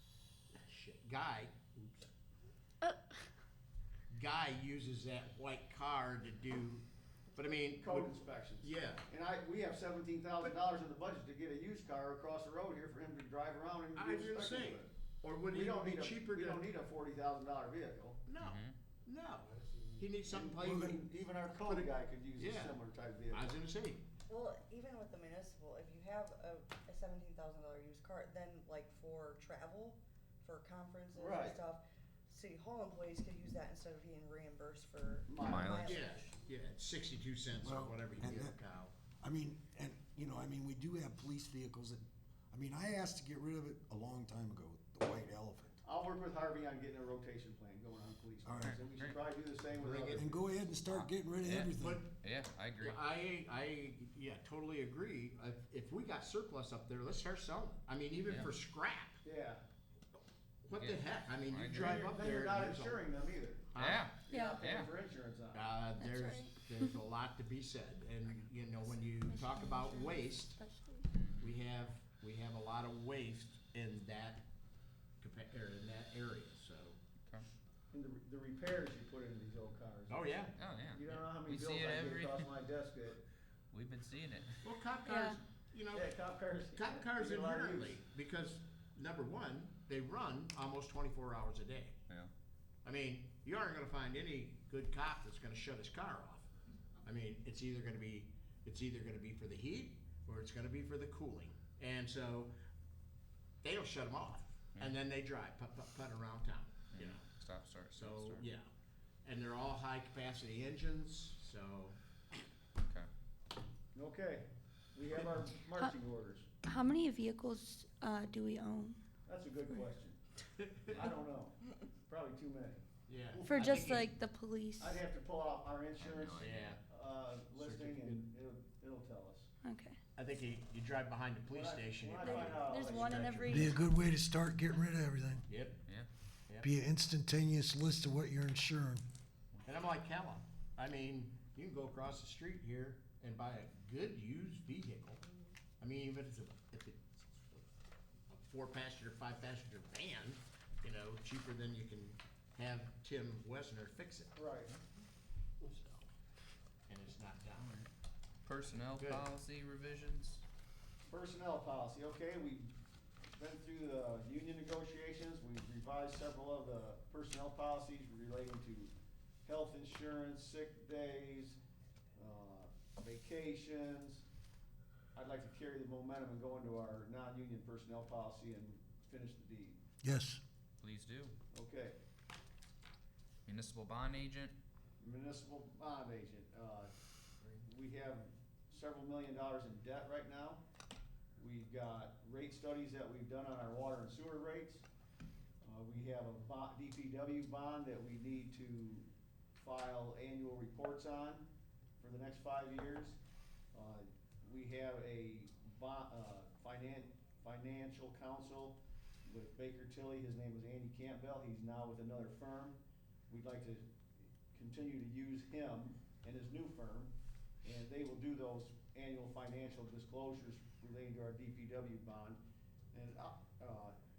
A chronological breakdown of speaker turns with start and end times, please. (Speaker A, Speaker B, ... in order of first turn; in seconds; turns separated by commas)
Speaker A: 0.6-2.1, Speaker A: 4.1-9.0, Speaker B: 7.7-14.9, Speaker A: 13.9-16.7, Speaker B: 15.5-18.2, Speaker A: 18.3-22.8, Speaker C: 18.4-18.8, Speaker B: 20.3-23.6, Speaker A: 23.3-24.1, Speaker D: 24.3-36.3, Speaker B: 31.2-31.6, Speaker B: 35.3-36.0, Speaker C: 35.4-35.9, Speaker A: 35.9-38.9, Speaker E: 37.6-38.6, Speaker E: 39.2-45.8, Speaker B: 45.8-50.3, Speaker E: 48.5-48.8, Speaker C: 48.6-49.2, Speaker A: 49.8-50.4, Speaker E: 50.1-52.0, Speaker C: 50.9-53.0, Speaker A: 51.8-52.1, Speaker A: 52.8-59.2, Speaker B: 59.2-59.6, Speaker A: 60.6-63.0, Speaker C: 60.7-62.0, Speaker B: 61.7-63.7, Speaker A: 63.7-64.1, Speaker C: 63.8-64.9, Speaker B: 64.2-65.7, Speaker F: 64.3-64.6, Speaker A: 65.5-70.6, Speaker F: 66.0-67.0, Speaker F: 69.3-71.1, Speaker C: 71.1-71.6, Speaker A: 71.4-74.5, Speaker A: 75.2-77.0, Speaker B: 77.9-83.2, Speaker A: 80.1-80.5, Speaker C: 80.6-82.5, Speaker C: 83.7-84.7, Speaker A: 84.6-86.2, Speaker F: 85.0-85.4, Speaker B: 85.9-88.0, Speaker A: 86.7-92.0, Speaker A: 92.8-96.5, Speaker A: 97.0-102.5, Speaker A: 103.6-107.3, Speaker C: 106.9-108.5, Speaker A: 108.0-108.7, Speaker A: 109.2-112.0, Speaker C: 112.8-113.1, Speaker B: 113.9-116.5, Speaker F: 116.7-119.0, Speaker B: 119.3-120.2, Speaker A: 120.6-120.9, Speaker B: 120.9-122.8, Speaker A: 123.1-124.1, Speaker F: 123.5-125.0, Speaker B: 123.5-123.9, Speaker B: 124.8-129.5, Speaker C: 126.0-126.8, Speaker A: 126.4-126.8, Speaker A: 127.5-128.2, Speaker F: 129.6-130.0, Speaker A: 130.2-133.7, Speaker B: 131.5-133.5, Speaker F: 132.2-133.8, Speaker E: 133.5-135.4, Speaker A: 135.5-135.8, Speaker E: 136.6-139.0, Speaker A: 139.7-147.7, Speaker A: 148.3-154.3, Speaker B: 154.4-154.7, Speaker A: 155.6-156.0, Speaker A: 156.9-157.7, Speaker C: 157.6-157.9, Speaker C: 158.4-160.4, Speaker A: 159.0-159.3, Speaker B: 161.1-162.7, Speaker B: 163.3-168.9, Speaker B: 169.4-171.6, Speaker B: 172.2-174.2, Speaker B: 175.2-179.8, Speaker E: 180.0-180.4, Speaker C: 180.8-181.3, Speaker B: 181.5-182.0, Speaker C: 183.5-184.6, Speaker B: 185.0-186.9, Speaker B: 187.5-190.6, Speaker B: 191.4-194.9, Speaker B: 195.6-201.5, Speaker B: 202.0-203.2, Speaker B: 203.7-213.9, Speaker B: 214.5-217.1, Speaker B: 217.6-222.4, Speaker B: 222.9-223.9